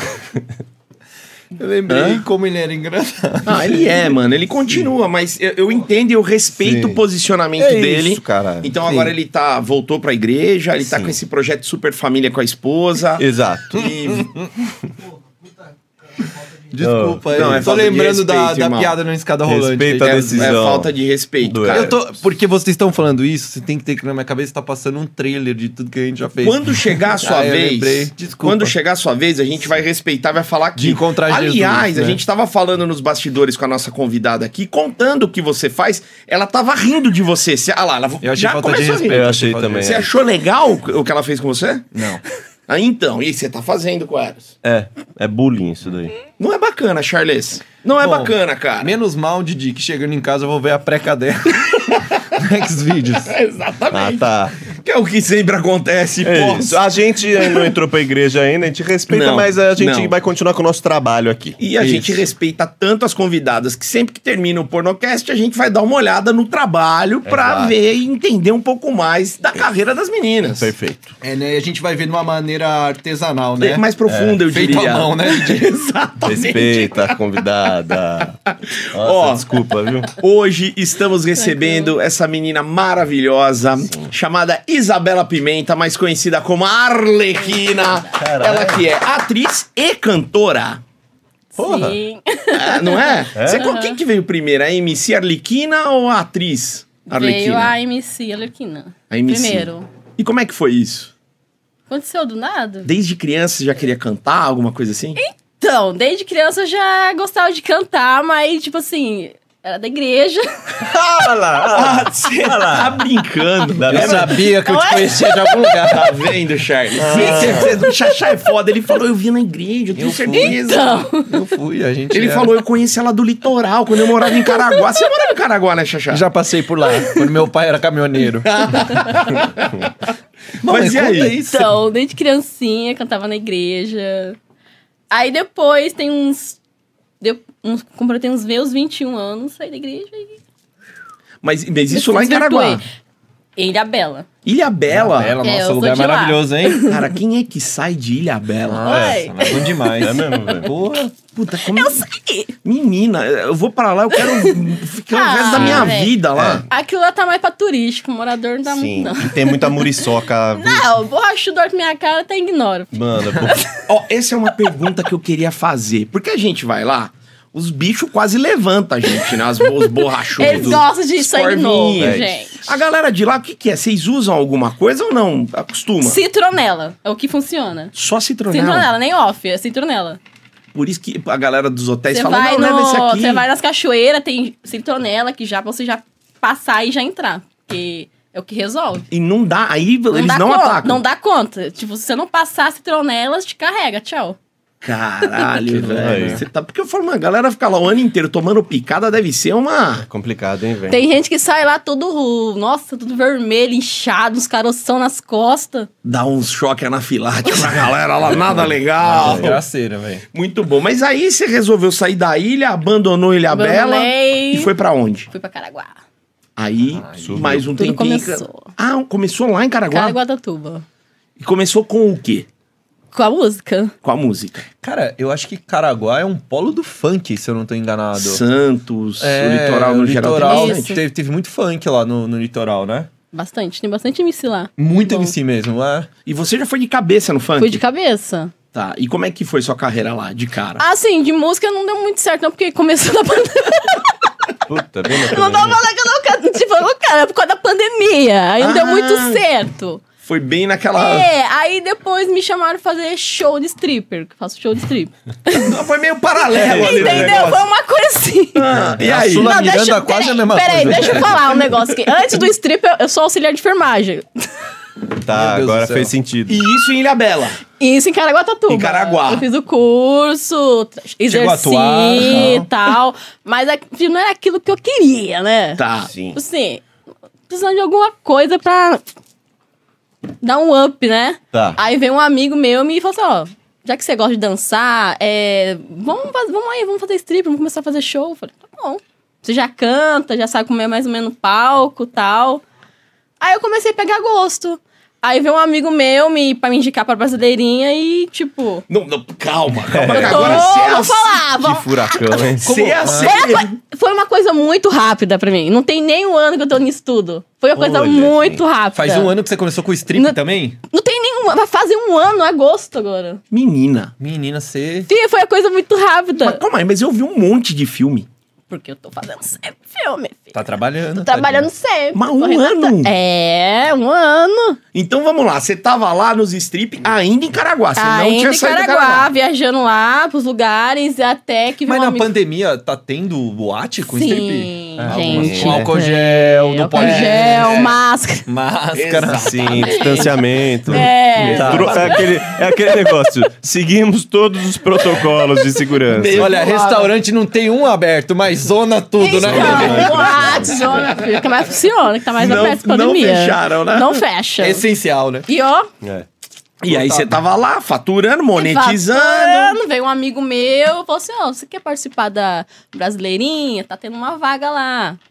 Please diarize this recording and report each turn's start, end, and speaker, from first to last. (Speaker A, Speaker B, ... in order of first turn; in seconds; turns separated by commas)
Speaker A: 1.6-4.1, Speaker B: 1.9-2.2, Speaker B: 3.5-14.3, Speaker C: 6.6-7.0, Speaker C: 7.6-8.7, Speaker A: 8.8-9.1, Speaker C: 10.8-11.1, Speaker C: 13.2-13.9, Speaker A: 16.7-20.6, Speaker C: 16.8-17.7, Speaker B: 17.3-19.0, Speaker C: 19.5-20.9, Speaker B: 20.0-22.0, Speaker C: 21.4-21.9, Speaker A: 21.7-28.7, Speaker B: 26.4-41.9, Speaker A: 30.8-32.2, Speaker A: 38.2-40.0, Speaker C: 39.1-40.1, Speaker A: 41.9-42.2, Speaker B: 42.7-44.5, Speaker C: 44.6-46.1, Speaker B: 46.4-48.9, Speaker A: 48.0-53.3, Speaker B: 53.3-56.8, Speaker C: 53.9-54.6, Speaker C: 56.2-61.6, Speaker B: 57.4-57.7, Speaker B: 59.1-60.1, Speaker B: 61.6-70.7, Speaker A: 61.8-62.2, Speaker C: 67.3-67.7, Speaker C: 70.5-71.2, Speaker A: 71.2-73.8, Speaker B: 73.6-77.2, Speaker C: 74.1-74.4, Speaker A: 74.5-75.7, Speaker C: 76.2-78.4, Speaker B: 78.5-79.6, Speaker C: 78.9-80.1, Speaker B: 80.2-90.8, Speaker D: 81.4-82.0, Speaker C: 83.8-84.1, Speaker D: 87.4-88.1, Speaker C: 88.1-88.8, Speaker D: 91.5-94.0, Speaker C: 91.6-92.0, Speaker B: 92.5-97.8, Speaker C: 93.4-93.7, Speaker D: 97.1-99.9, Speaker B: 99.1-101.1, Speaker D: 101.9-102.9, Speaker B: 102.8-105.2, Speaker D: 105.2-110.9, Speaker C: 110.8-113.0, Speaker B: 111.7-114.4, Speaker C: 113.8-114.4, Speaker A: 113.9-116.2, Speaker D: 114.5-115.8, Speaker B: 115.9-121.1, Speaker C: 117.0-117.8, Speaker A: 117.0-117.8, Speaker A: 120.0-120.6, Speaker D: 120.4-121.5, Speaker A: 121.3-122.5, Speaker B: 122.1-126.3, Speaker D: 124.3-125.0, Speaker A: 126.1-128.8, Speaker D: 126.8-127.4, Speaker B: 128.4-129.8, Speaker D: 129.0-129.3, Speaker A: 130.6-131.7, Speaker B: 130.7-131.4, Speaker D: 131.5-134.4, Speaker D: 135.1-136.6, Speaker D: 137.2-140.4, Speaker B: 141.4-142.8, Speaker D: 141.9-142.8, Speaker D: 143.6-144.3, Speaker B: 144.4-145.4, Speaker A: 144.9-146.9, Speaker D: 145.4-147.1, Speaker B: 146.9-148.9, Speaker A: 148.7-151.1, Speaker D: 148.8-150.7, Speaker C: 148.9-149.3, Speaker C: 149.9-150.7, Speaker B: 151.3-152.1, Speaker D: 151.6-152.5, Speaker B: 152.6-156.7, Speaker D: 154.2-156.2, Speaker C: 155.5-156.7, Speaker D: 156.7-163.8, Speaker C: 158.7-160.9, Speaker C: 162.9-163.7, Speaker B: 163.9-176.2, Speaker D: 170.2-172.7, Speaker C: 170.4-170.8, Speaker C: 172.0-172.3, Speaker D: 176.0-177.9, Speaker B: 177.9-178.9, Speaker D: 178.5-180.2, Speaker B: 180.7-183.4, Speaker D: 182.1-189.1, Speaker B: 189.1-191.0, Speaker D: 190.1-194.4, Speaker B: 194.8-200.1, Speaker A: 195.6-196.4, Speaker C: 196.0-196.4, Speaker C: 200.1-201.0, Speaker D: 200.9-205.9, Speaker B: 206.0-209.6, Speaker A: 209.1-210.2, Speaker C: 209.1-209.6, Speaker B: 210.3-215.3, Speaker D: 213.5-214.7, Speaker D: 215.3-216.0, Speaker B: 216.6-220.2, Speaker A: 216.9-217.6, Speaker C: 217.2-217.7, Speaker D: 217.8-218.7, Speaker D: 219.9-220.8, Speaker B: 221.4-222.5, Speaker D: 223.1-223.9, Speaker B: 224.0-224.6, Speaker A: 224.8-228.4, Speaker B: 228.2-231.0, Speaker A: 229.2-233.1, Speaker D: 230.4-231.0, Speaker D: 233.3-235.3, Speaker A: 234.8-236.1, Speaker B: 236.3-237.8, Speaker D: 237.6-238.5, Speaker B: 238.7-240.8, Speaker D: 240.8-244.2, Speaker C: 244.7-245.8, Speaker D: 245.1-250.0, Speaker B: 248.6-249.4, Speaker B: 250.2-251.3, Speaker D: 251.0-255.8, Speaker B: 255.5-257.6, Speaker D: 256.5-258.7, Speaker C: 256.6-257.5, Speaker B: 258.6-259.6, Speaker A: 258.8-261.6, Speaker D: 259.4-264.5, Speaker C: 265.2-266.6, Speaker A: 265.3-266.1, Speaker B: 266.5-267.6, Speaker D: 267.8-275.8, Speaker B: 268.7-269.5, Speaker A: 271.3-272.7, Speaker B: 275.8-276.1, Speaker C: 276.1-276.4, Speaker D: 276.3-276.8, Speaker D: 277.5-279.0, Speaker D: 280.4-292.6, Speaker C: 281.5-281.8, Speaker D: 293.4-298.9, Speaker B: 298.9-301.4, Speaker C: 299.9-300.7, Speaker D: 300.1-302.5, Speaker C: 301.6-303.0, Speaker B: 302.6-303.8, Speaker A: 302.8-303.4, Speaker D: 303.2-309.4, Speaker C: 307.8-308.6, Speaker A: 309.0-310.8, Speaker D: 310.1-313.4, Speaker B: 313.5-314.1, Speaker A: 314.2-315.1, Speaker D: 315.1-316.6, Speaker B: 316.4-318.3, Speaker D: 318.7-320.6, Speaker A: 320.5-321.7, Speaker D: 321.2-324.8, Speaker B: 322.1-323.1, Speaker B: 324.9-329.3, Speaker D: 328.0-332.3, Speaker A: 331.9-338.0, Speaker D: 334.1-338.5, Speaker C: 335.1-335.9, Speaker B: 337.0-337.9, Speaker A: 338.5-339.9, Speaker B: 338.9-340.4, Speaker C: 339.3-346.6, Speaker D: 340.9-342.2, Speaker A: 341.4-342.2, Speaker B: 341.5-342.5, Speaker B: 346.1-347.1, Speaker A: 346.3-350.9, Speaker D: 349.2-354.9, Speaker C: 349.3-351.2, Speaker B: 352.4-354.2, Speaker A: 354.6-355.5, Speaker D: 355.5-355.9, Speaker C: 356.0-356.3, Speaker B: 356.8-359.8, Speaker A: 356.9-357.3, Speaker D: 358.6-365.2